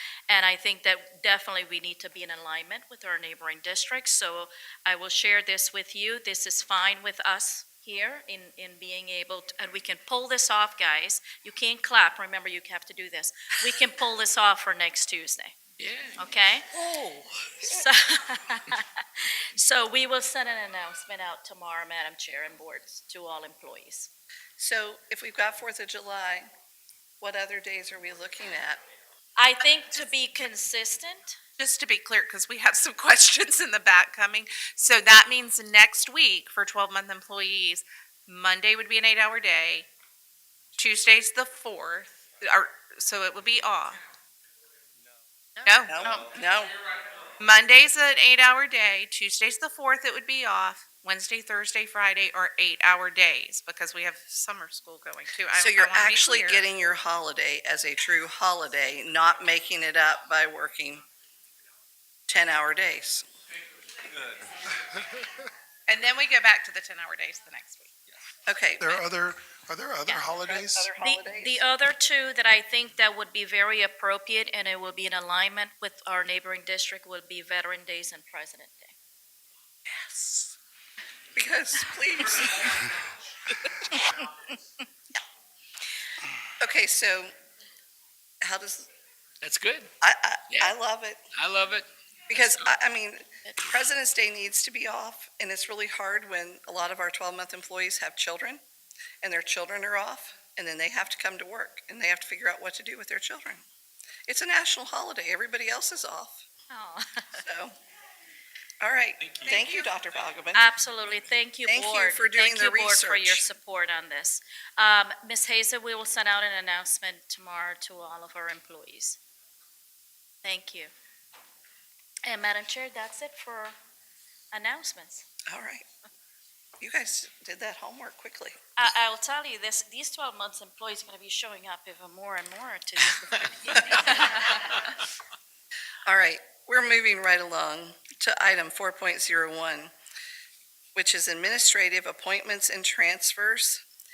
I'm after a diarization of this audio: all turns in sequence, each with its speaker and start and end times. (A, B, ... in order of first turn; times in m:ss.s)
0:00.3-0:15.6 A
0:15.8-0:16.2 B
0:16.2-0:16.7 A
0:16.7-0:17.9 C
0:17.6-0:24.1 A
0:24.6-0:26.5 C
0:27.2-0:28.8 C
0:29.4-0:31.4 A
0:31.6-0:39.9 D
0:40.8-0:44.0 D
0:45.6-0:46.3 D
0:45.8-0:46.7 C
0:47.4-0:56.6 D
0:55.5-1:01.0 C
1:02.3-1:03.3 C
1:05.9-1:07.9 D
1:08.5-1:09.0 C
1:08.8-1:10.9 E
1:10.4-1:11.6 C
1:11.0-1:18.9 A
1:20.2-1:20.5 C
1:21.3-1:22.8 C
1:26.6-1:27.3 C
1:28.4-1:28.9 C
1:29.4-1:29.9 B
1:30.0-1:31.2 C
1:30.5-1:30.7 B
1:31.3-1:31.9 B
1:32.3-1:38.6 C
1:39.2-1:43.6 C
1:44.3-1:46.4 C
1:46.7-1:47.4 A
1:47.4-1:47.7 C
1:48.8-1:50.7 C
1:49.3-1:49.6 B
1:49.4-1:49.9 A
1:50.5-1:59.2 A
1:51.6-1:53.5 C
2:00.4-2:00.9 A
2:02.2-2:03.7 A
2:04.5-2:05.2 A
2:05.5-2:05.8 C
2:06.8-2:08.6 C
2:08.8-2:14.8 A
2:13.2-2:13.5 B
2:13.7-2:14.1 C
2:16.0-2:19.9 C
2:20.9-2:23.8 C